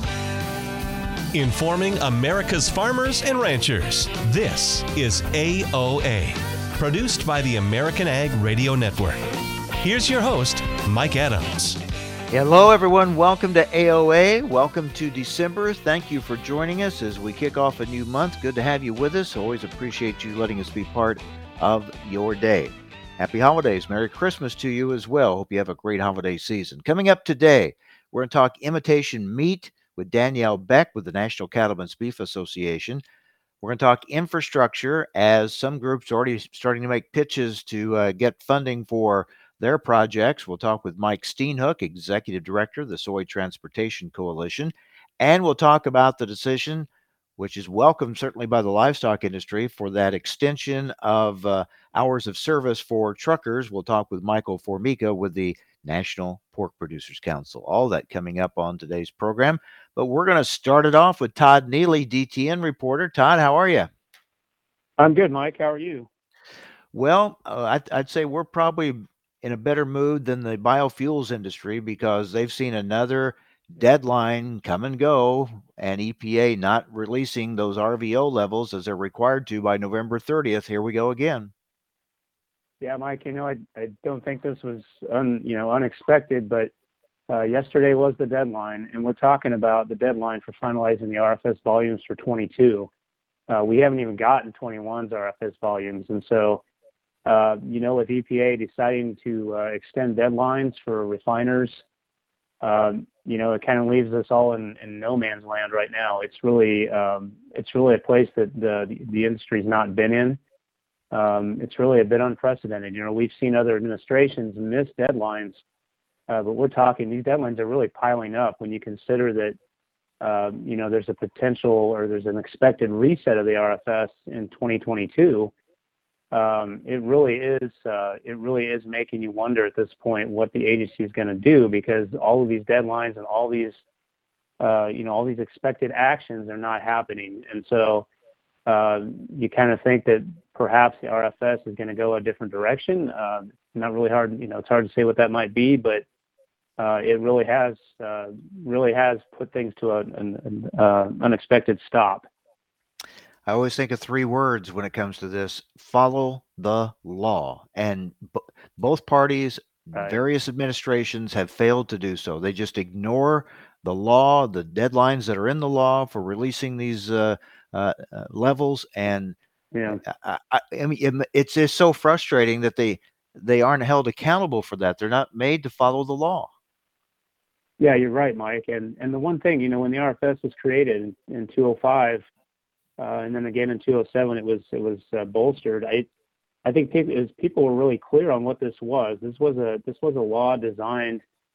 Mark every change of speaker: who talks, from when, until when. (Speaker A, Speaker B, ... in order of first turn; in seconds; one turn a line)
Speaker A: 1.3-9.2
Speaker A: 9.8-11.8
Speaker B: 12.3-33.0
Speaker B: 33.6-63.9
Speaker C: 65.0-66.1
Speaker B: 66.9-81.5
Speaker C: 82.8-86.7
Speaker C: 87.3-92.9
Speaker C: 93.5-96.6
Speaker C: 97.3-101.8
Speaker C: 102.6-110.4
Speaker C: 111.1-115.6
Speaker C: 116.3-119.6
Speaker C: 120.2-125.5
Speaker C: 126.3-133.8
Speaker C: 134.6-138.1
Speaker C: 138.7-146.1
Speaker C: 146.8-152.3
Speaker B: 153.5-169.4
Speaker C: 169.7-170.0
Speaker B: 170.0-176.5
Speaker C: 177.8-182.2
Speaker C: 183.0-186.1
Speaker C: 186.7-191.2